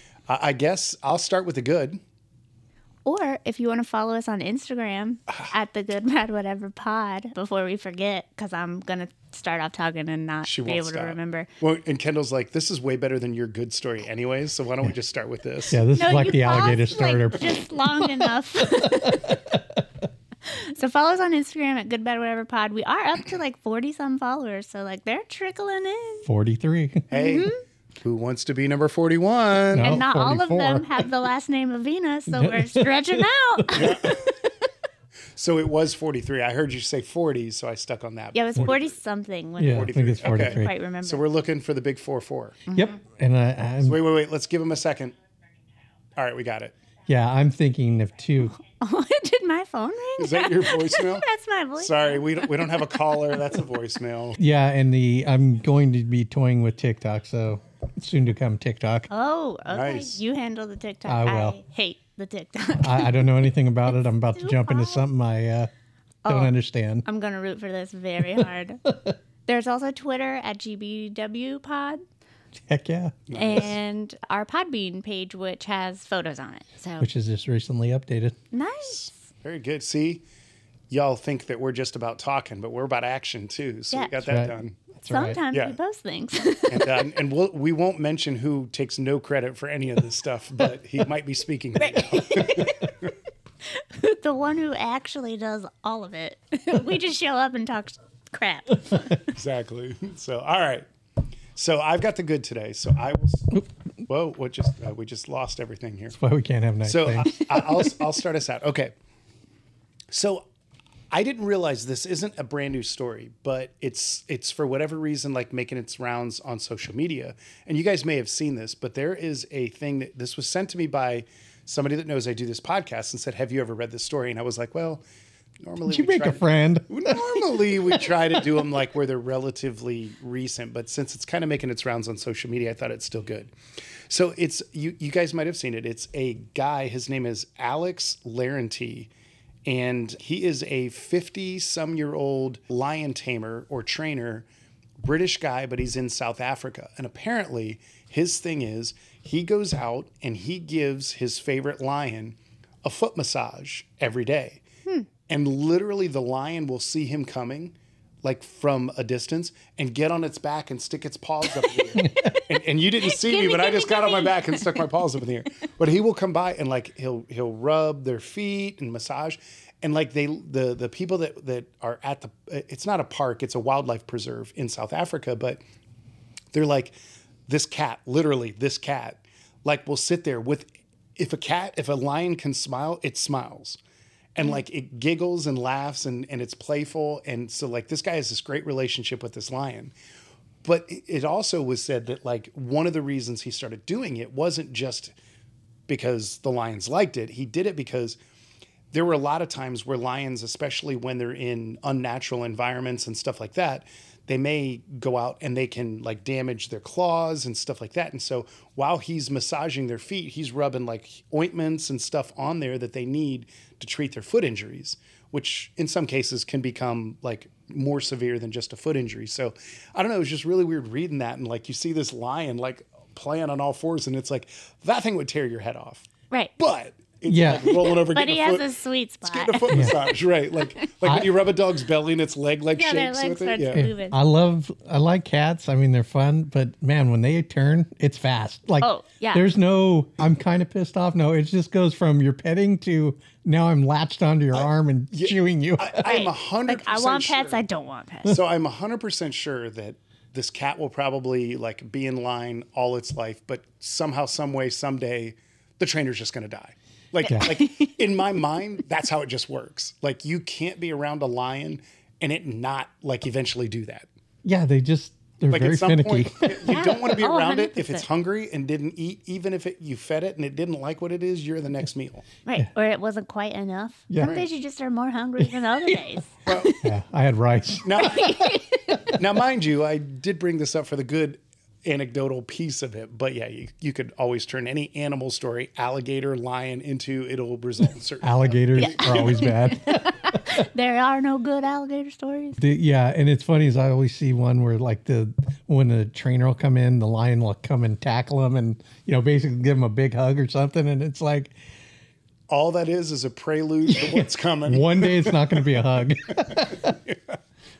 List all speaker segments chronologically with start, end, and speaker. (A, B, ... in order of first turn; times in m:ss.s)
0:00.3-0:02.0 A
0:03.0-0:11.5 B
0:10.4-0:15.8 A
0:15.7-0:17.5 C
0:15.9-0:19.4 B
0:18.0-0:19.8 C
0:20.4-0:26.3 B
0:26.2-0:27.1 C
0:27.1-0:30.0 A
0:27.1-0:27.6 B
0:29.7-0:31.0 C
0:29.8-0:34.1 B
0:32.3-0:34.1 C
0:33.7-0:34.3 A
0:35.4-0:39.0 A
0:38.3-0:41.2 B
0:39.6-0:40.7 C
0:39.6-0:42.6 A
0:42.7-0:43.0 B
0:42.7-0:44.0 C
0:43.8-0:45.1 A
0:46.2-0:46.7 A
0:47.0-0:48.5 C
0:48.6-0:53.0 B
0:50.2-0:51.3 A
0:51.8-0:54.4 A
0:54.4-0:59.1 C
0:59.1-1:03.3 B
0:59.7-1:00.2 A
1:01.0-1:01.6 C
1:02.8-1:05.7 C
1:04.3-1:05.0 B
1:06.2-1:08.8 B
1:06.3-1:07.0 C
1:08.8-1:09.2 C
1:09.4-1:12.0 B
1:12.6-1:13.2 C
1:13.3-1:13.8 A
1:13.3-1:17.1 B
1:17.0-1:18.4 C
1:18.5-1:19.2 B
1:18.8-1:20.2 A
1:20.9-1:24.8 A
1:24.2-1:25.4 C
1:25.1-1:27.1 B
1:26.7-1:33.1 A
1:31.8-1:32.9 B
1:33.7-1:39.0 B
1:39.3-1:40.9 A
1:41.6-1:46.2 A
1:46.1-1:47.9 C
1:46.8-1:48.9 A
1:50.1-1:50.4 A
1:51.1-2:05.0 A
2:05.6-2:13.5 A
2:05.9-2:08.6 C
2:14.1-2:19.1 A
2:19.6-2:24.5 A
2:25.0-2:34.6 A
2:35.3-2:55.6 A
2:42.0-2:42.4 C
2:42.0-2:42.4 B
2:43.0-2:44.8 B
2:56.5-2:56.9 A
2:57.5-3:03.8 A
3:04.3-3:09.9 A
3:10.6-3:15.1 A
3:15.9-3:18.2 A
3:18.9-3:48.7 A
3:47.3-3:47.8 C
3:47.7-3:50.1 B
3:49.2-3:53.8 A
3:49.7-3:50.0 C
3:51.0-3:51.3 C
3:52.7-3:54.2 B
3:53.7-4:06.1 C
3:58.8-3:59.4 B
4:04.5-4:07.6 A
4:06.0-4:08.4 B
4:08.2-4:24.1 A
4:17.2-4:17.9 B
4:17.2-4:17.6 C
4:24.4-4:26.7 C
4:25.5-4:32.2 A
4:26.6-4:28.0 B
4:32.4-4:36.4 B
4:34.1-4:34.4 C
4:36.4-4:36.8 A
4:36.7-4:38.4 C
4:37.8-4:38.5 A
4:38.0-4:39.0 B
4:39.0-4:49.5 A
4:48.2-4:50.6 C
4:48.8-4:52.6 B
4:52.6-5:01.5 C
5:02.5-5:05.8 A
5:03.9-5:07.0 C
5:06.4-5:07.2 A